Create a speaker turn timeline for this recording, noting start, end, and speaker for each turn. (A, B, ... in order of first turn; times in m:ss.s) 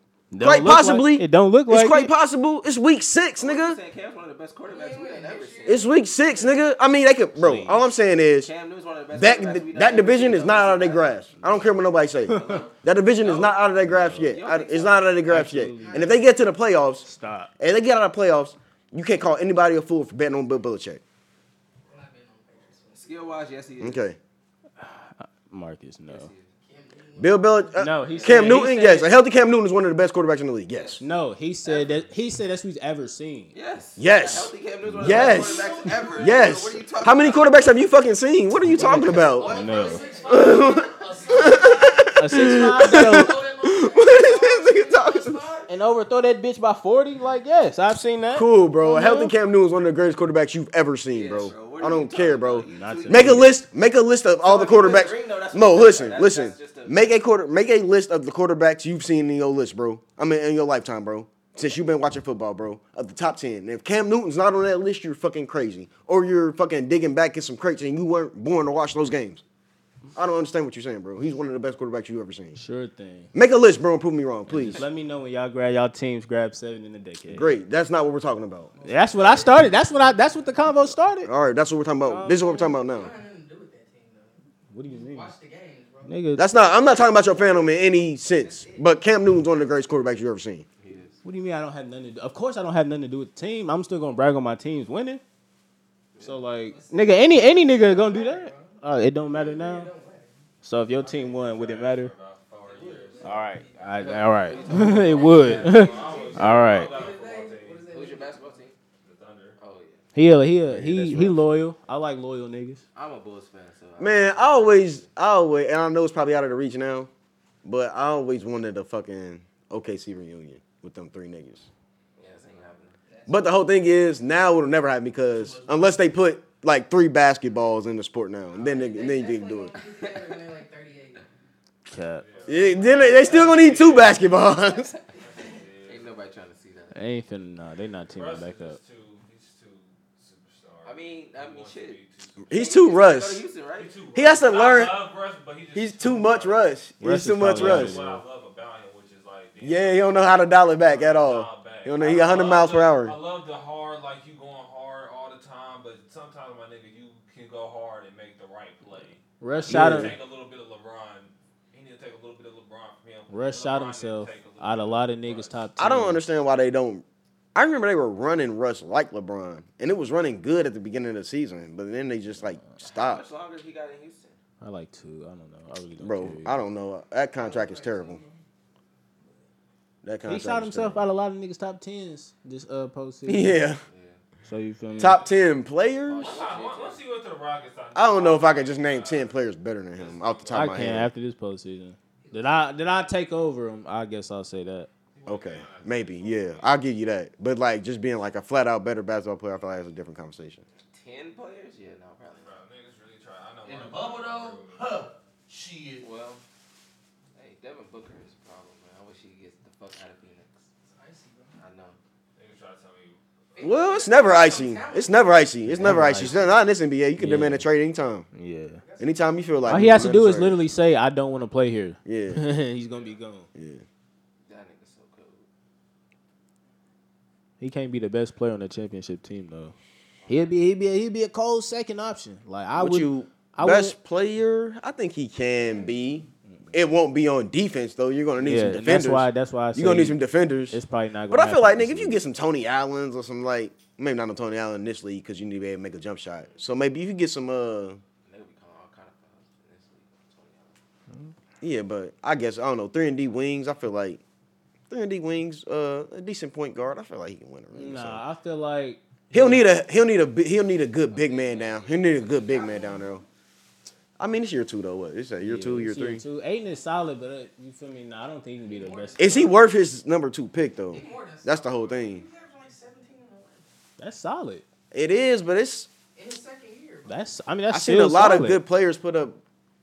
0:00.3-0:02.1 A
0:00.4-0:03.8 B
0:03.4-0:05.9 C
0:04.7-0:05.9 D
0:05.6-0:08.5 B
0:07.3-0:07.8 A
0:08.4-0:11.2 C
0:09.1-0:17.0 B
0:12.2-0:13.6 C
0:12.3-0:12.6 A
0:13.8-0:14.3 A
0:14.2-0:15.1 C
0:15.2-0:16.2 A
0:15.8-0:16.2 D
0:17.0-0:17.5 A
0:17.6-0:21.0 B
0:21.9-0:23.4 D
0:23.0-0:24.1 C
0:23.8-0:24.2 B
0:24.8-0:26.3 A
0:26.1-0:26.5 C
0:26.6-0:28.4 D
0:27.2-0:31.0 B
0:27.7-0:29.1 A
0:28.0-0:28.7 C
0:31.0-0:33.5 A
0:31.6-0:32.1 C
0:33.5-0:37.7 C
0:34.0-0:39.6 B
0:34.9-0:35.5 A
0:35.6-0:36.3 D
0:38.7-0:40.1 A
0:39.1-0:45.7 D
0:39.9-0:40.7 E
0:40.2-0:45.4 B
0:42.2-0:43.4 A
0:45.7-0:49.3 A
0:48.3-1:09.4 B
0:51.1-0:53.5 C
0:52.6-0:53.5 A
0:54.4-0:57.1 C
1:10.1-1:12.6 B
1:12.6-1:13.3 A
1:13.3-1:14.8 B
1:14.5-1:17.6 A
1:17.3-1:18.7 B
1:18.7-1:20.6 D
1:18.8-1:21.3 A
1:21.2-1:23.1 B
1:22.0-1:22.6 A
1:22.3-1:27.7 D
1:24.7-1:25.3 A
1:26.1-1:26.4 A
1:26.4-1:30.6 B
1:28.3-1:28.8 D
1:30.8-1:31.2 C
1:31.2-1:35.2 A
1:36.1-1:37.2 C
1:36.2-1:39.9 A
1:36.9-1:40.3 D
1:40.6-1:42.1 A
1:41.0-1:43.3 E
1:42.6-1:43.3 C
1:42.7-1:48.6 D
1:43.2-1:47.0 A
1:43.9-1:46.5 C
1:44.8-1:47.8 E
1:47.9-1:48.7 C
1:49.0-1:49.6 E
1:49.6-1:50.1 C
1:50.1-1:52.8 A
1:50.6-1:51.4 B
1:52.9-1:55.1 C
1:54.0-1:57.1 B
1:57.6-2:01.7 B
2:02.2-2:03.1 C
2:03.1-2:03.4 D
2:03.3-2:09.8 B
2:05.3-2:06.0 D
2:08.5-2:11.2 D
2:09.8-2:10.4 C
2:11.9-2:12.3 A
2:12.2-2:14.3 E
2:12.5-2:14.9 B
2:12.5-2:13.6 D
2:15.2-2:15.6 D
2:15.2-2:16.1 E
2:15.8-2:17.0 C
2:16.9-2:18.8 A
2:18.1-2:22.5 E
2:20.8-2:22.0 C
2:22.5-2:23.4 B
2:22.5-2:23.9 C
2:23.8-2:26.6 E
2:24.1-2:24.9 B
2:25.7-2:28.0 B
2:27.0-2:28.2 A
2:27.6-2:45.6 E
2:29.6-2:33.2 B
2:39.4-2:40.1 A
2:39.6-2:40.1 B
2:43.3-2:46.2 A
2:45.8-2:53.2 B
2:52.8-2:54.4 C
2:54.6-2:56.6 A
2:56.0-2:58.2 B
2:57.4-2:58.4 D
3:00.0-3:01.1 B
3:00.3-3:03.6 A
3:03.3-3:03.8 B
3:03.9-3:04.2 C
3:04.4-3:05.3 A
3:05.0-3:06.4 B
3:06.1-3:07.0 C
3:06.2-3:09.4 E
3:07.9-3:11.1 B
3:09.9-3:11.0 E
3:10.5-3:14.9 A
3:12.2-3:12.9 D
3:15.1-3:16.8 E
3:15.2-3:20.6 B
3:20.9-3:22.5 C
3:22.4-3:24.9 E
3:23.6-3:26.0 F
3:26.0-3:26.4 C
3:27.3-3:30.7 C
3:30.8-3:31.6 D
3:31.6-3:32.0 C
3:32.4-3:33.2 E
3:33.6-3:36.6 D
3:33.6-3:38.3 B
3:35.7-3:36.5 A
3:37.2-3:37.6 A
3:38.3-3:38.8 A
3:38.8-3:39.8 D
3:39.0-3:40.6 B
3:39.6-3:43.5 A
3:42.0-3:42.4 B
3:43.5-3:43.8 B
3:44.4-3:45.5 C
3:47.6-3:49.7 A
3:50.2-3:50.6 C
3:50.3-3:53.9 A
3:52.8-4:08.0 B
3:58.4-4:00.2 A
4:00.7-4:02.2 A
4:08.2-4:10.8 C
4:11.6-4:14.2 B
4:14.9-4:18.2 B
4:17.7-4:19.6 A
4:19.3-4:23.2 B
4:21.1-4:22.9 C
4:22.5-4:23.2 D
4:24.2-4:26.2 B
4:25.4-4:29.6 A
4:28.6-4:29.6 D
4:29.2-4:32.2 B
4:30.9-4:33.7 D
4:34.0-4:34.6 A
4:34.9-4:35.9 B
4:36.1-4:37.2 D
4:37.1-4:38.6 A
4:37.7-4:39.4 B